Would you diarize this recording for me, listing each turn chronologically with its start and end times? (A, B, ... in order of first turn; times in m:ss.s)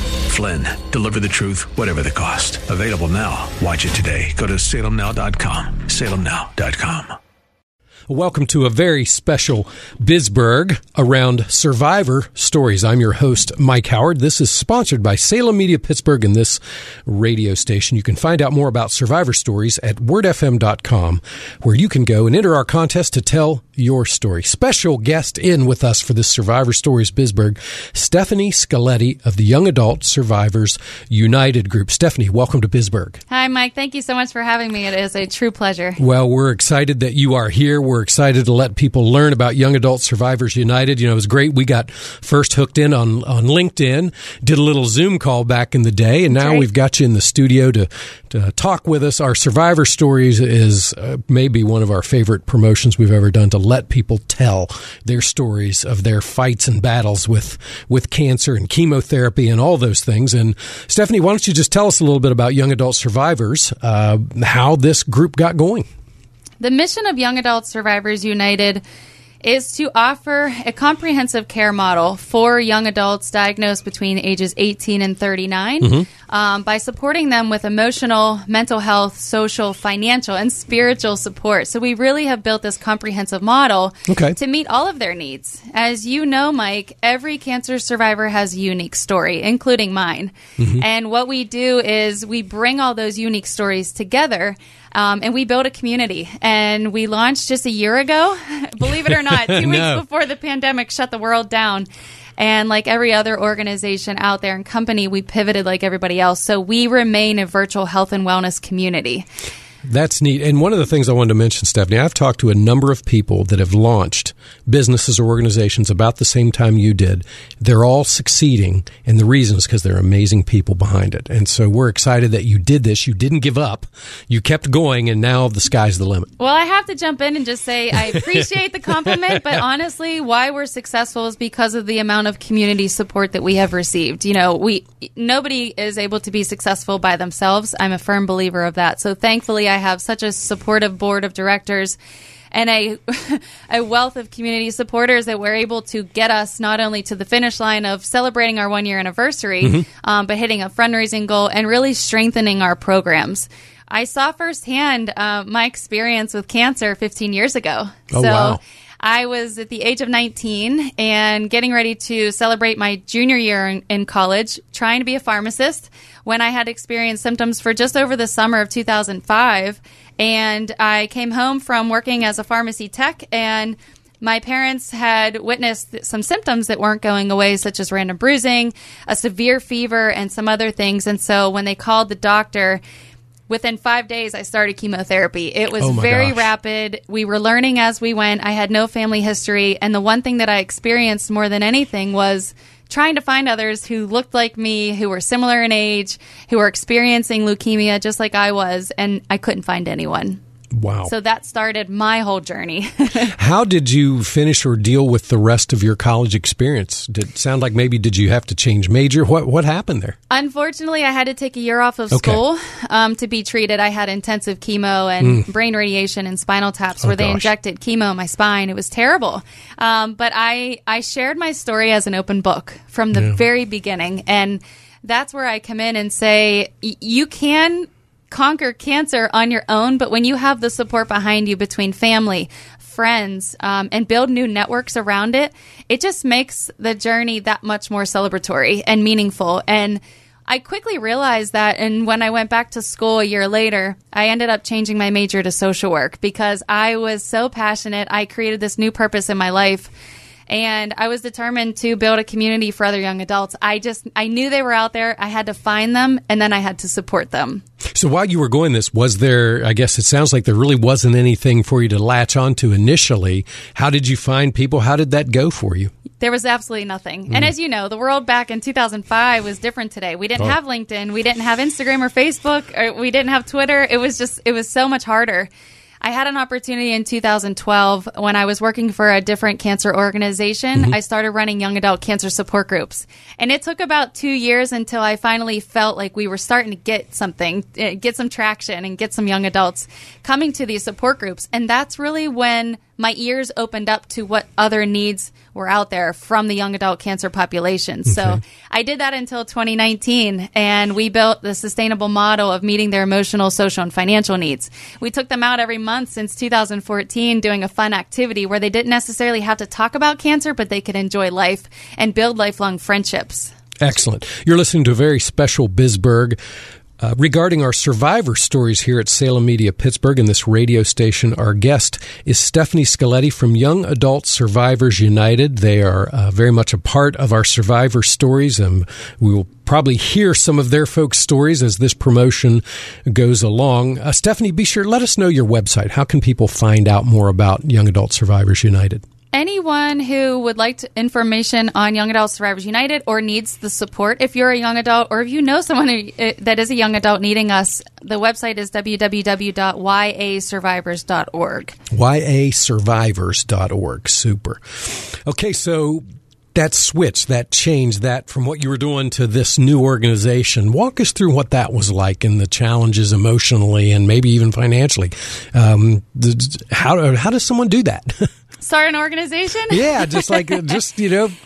0:00.2-0:07.1 A
0:08.1-0:33.2 B
0:33.3-0:36.0 C
0:36.0-1:05.9 B
0:46.3-0:46.6 C
1:06.6-1:08.8 C
1:09.4-1:49.2 C
1:15.8-1:16.1 B
1:24.1-1:24.4 B
1:30.6-1:30.8 B
1:39.1-1:40.0 B
1:49.8-2:06.3 B
2:06.4-2:22.0 C
2:08.1-2:08.4 B
2:09.1-2:09.6 B
2:22.5-3:02.8 C
2:38.1-2:38.6 B
3:03.5-3:20.4 C
3:05.8-3:06.4 B
3:20.7-3:21.1 B
3:21.0-3:23.3 C
3:23.3-3:30.2 B
3:30.3-4:09.9 C
3:32.1-3:32.4 B
3:37.0-3:37.5 B
4:10.5-4:17.6 C
4:17.8-4:25.9 B
4:26.2-4:35.5 C
4:36.0-5:13.5 C
4:58.1-4:58.4 B
5:13.8-5:16.4 B
5:17.0-5:39.0 B
5:39.3-5:51.8 C
5:51.9-6:08.3 B
6:08.6-6:10.8 C
6:09.7-6:11.4 B